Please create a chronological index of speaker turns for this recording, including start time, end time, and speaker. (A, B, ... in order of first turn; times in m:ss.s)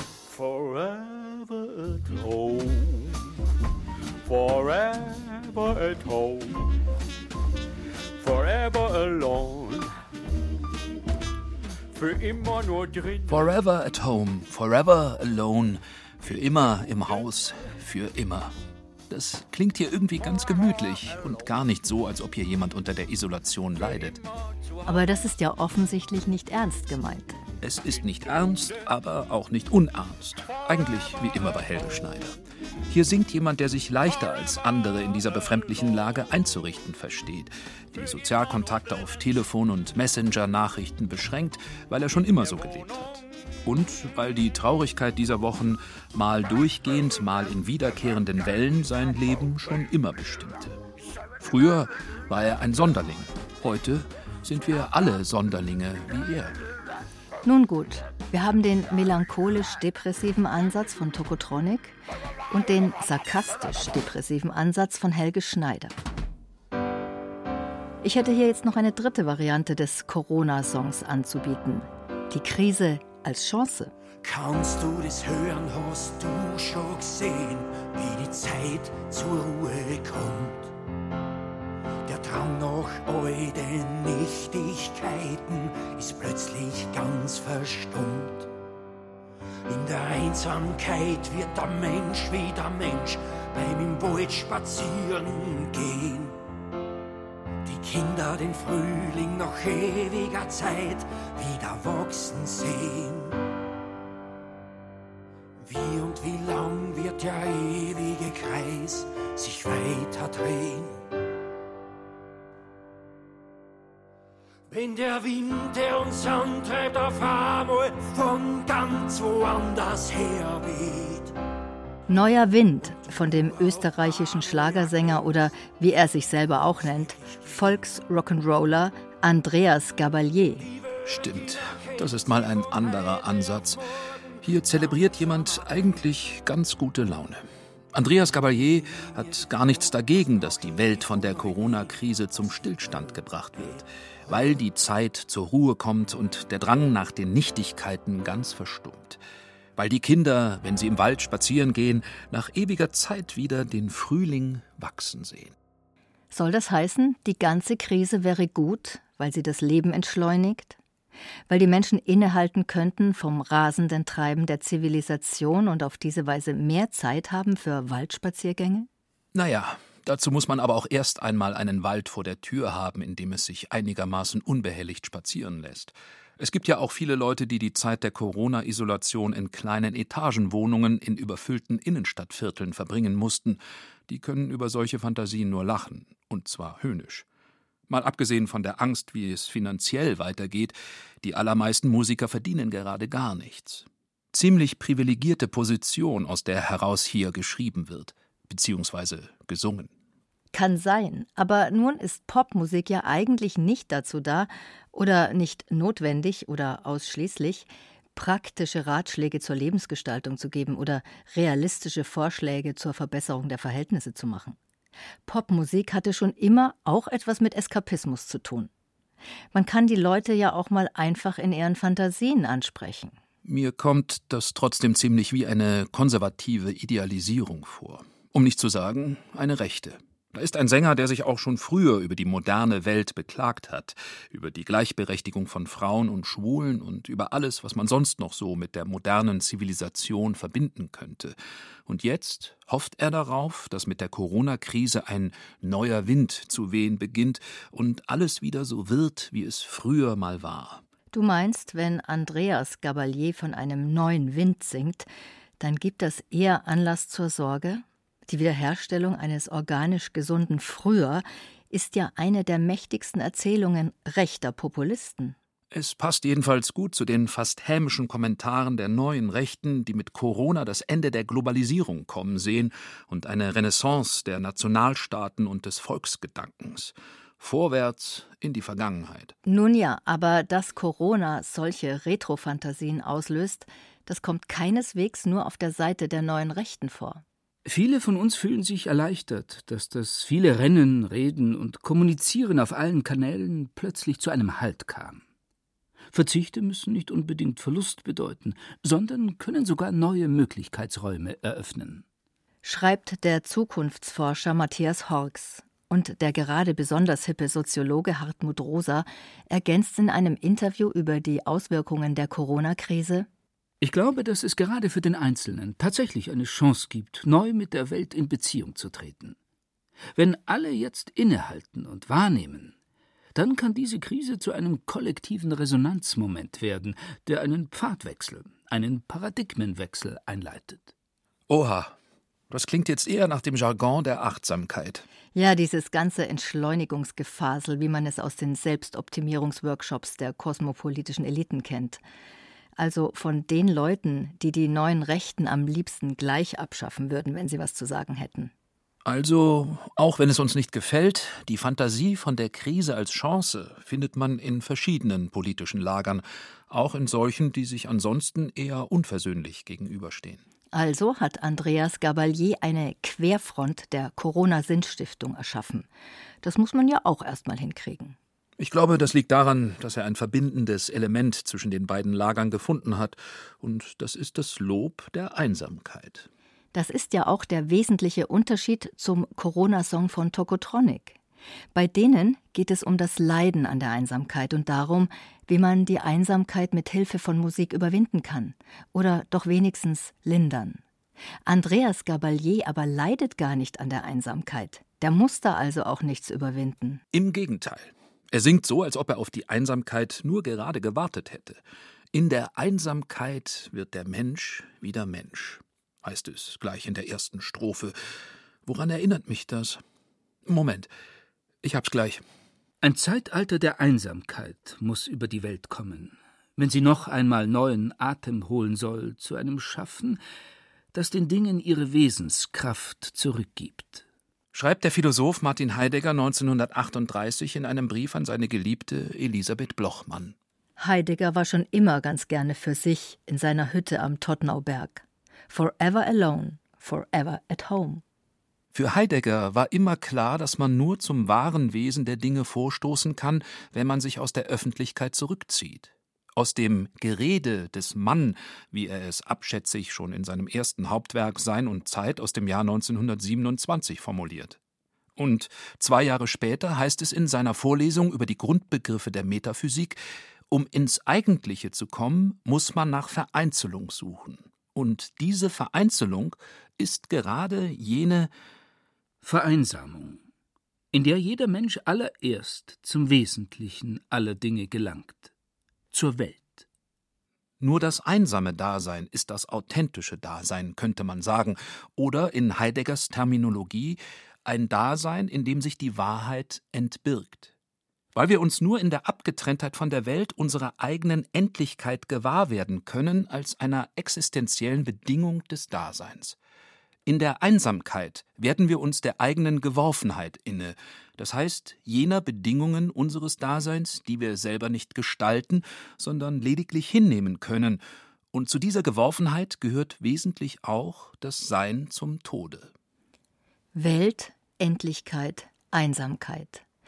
0:00.3-0:03.2 A
0:04.2-0:06.7 A
0:08.2-0:09.9 A
0:11.9-0:13.4 A
0:13.3-0:18.5 B
0:19.1-0:24.2 B
0:24.8-0:27.4 C
0:27.6-0:50.8 B
0:51.4-0:56.5 B
0:57.4-1:02.0 C
1:02.5-1:06.0 C
1:08.0-1:13.9 C
1:14.2-1:20.7 D
1:22.0-1:28.5 D
1:29.7-1:36.4 D
1:37.6-1:43.4 D
1:45.6-1:51.0 D
1:54.7-2:01.3 D
2:02.1-2:10.6 C
2:11.0-2:13.8 B
2:14.4-2:29.2 B
2:29.8-2:35.5 B
2:36.3-2:40.8 C
2:41.5-2:48.9 C
2:49.3-3:07.2 B
3:07.9-3:19.9 B
3:20.5-3:34.6 C
3:35.3-3:38.7 C
3:39.5-3:43.2 C
3:43.4-4:10.8 B
4:11.1-4:15.1 C
4:15.6-4:25.4 C
4:25.7-4:39.3 B
4:39.4-4:47.2 C
4:47.6-4:55.2 E
4:56.1-5:02.0 E
5:02.6-5:13.3 C
5:13.8-5:19.4 E
5:20.2-5:22.7 E
5:23.3-5:30.9 E
5:31.5-5:32.0 B
5:32.5-5:35.0 B
5:35.3-5:42.0 C
5:42.8-5:48.5 C
5:49.0-6:00.4 B
6:00.7-6:05.9 C
6:06.4-6:08.2 C
6:08.6-6:16.3 B
6:16.7-6:21.2 C
6:21.7-6:30.8 C
6:31.4-6:37.0 C
6:37.1-6:41.6 B
6:42.1-6:48.0 B
6:48.6-6:49.8 B
6:50.4-6:50.9 B
6:51.6-6:52.2 B
6:52.8-7:00.2 E
7:00.9-7:04.0 E
7:04.5-7:10.3 B
7:10.8-7:18.0 C
7:18.7-7:34.6 B
7:35.2-7:48.3 B
7:49.2-7:50.2 E
7:50.9-7:55.3 E
7:55.9-7:56.6 E
7:57.6-8:07.5 B
8:08.1-8:16.4 B
8:17.0-8:27.8 B
8:28.3-8:32.7 B
8:33.7-8:36.6 C